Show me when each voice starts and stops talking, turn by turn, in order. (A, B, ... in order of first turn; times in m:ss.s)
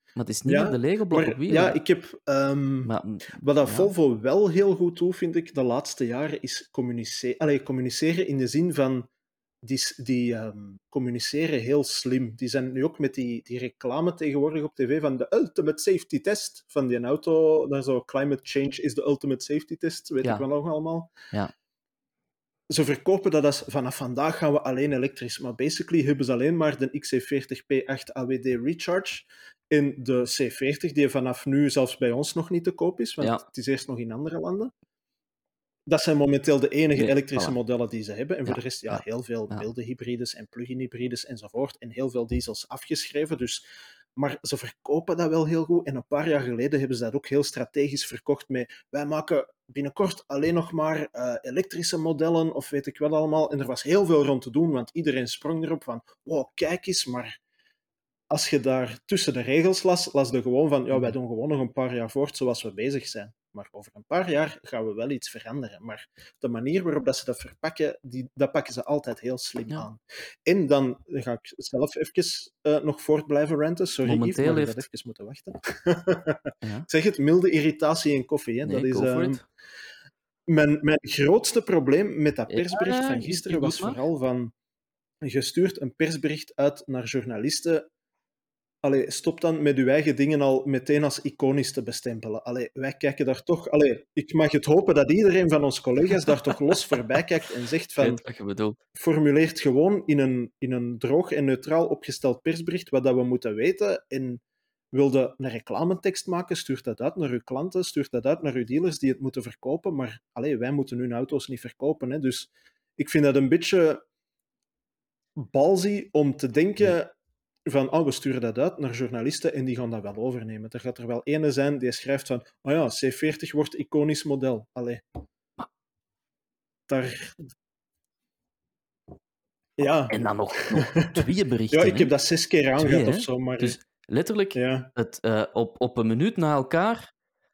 0:00.2-0:01.8 A
0:00.5-0:09.1 B
0:02.8-0:03.9 A
0:09.6-0:21.1 B
0:22.7-0:34.7 B
0:35.9-0:43.6 B
0:37.0-0:37.6 A
0:38.5-0:39.6 A
0:44.2-0:57.4 B
0:58.3-1:19.4 B
1:14.0-1:14.8 A
1:16.6-1:16.9 A
1:18.6-1:19.4 A
1:20.5-1:24.5 B
1:22.5-1:24.0 A
1:25.2-1:27.9 B
1:28.8-1:38.2 B
1:38.0-1:38.8 A
1:39.0-1:54.0 B
1:55.4-1:57.1 B
1:57.7-2:05.0 B
2:06.9-2:07.4 B
2:09.8-2:13.8 B
2:10.1-2:12.1 A
2:12.8-2:17.1 A
2:14.6-2:14.9 B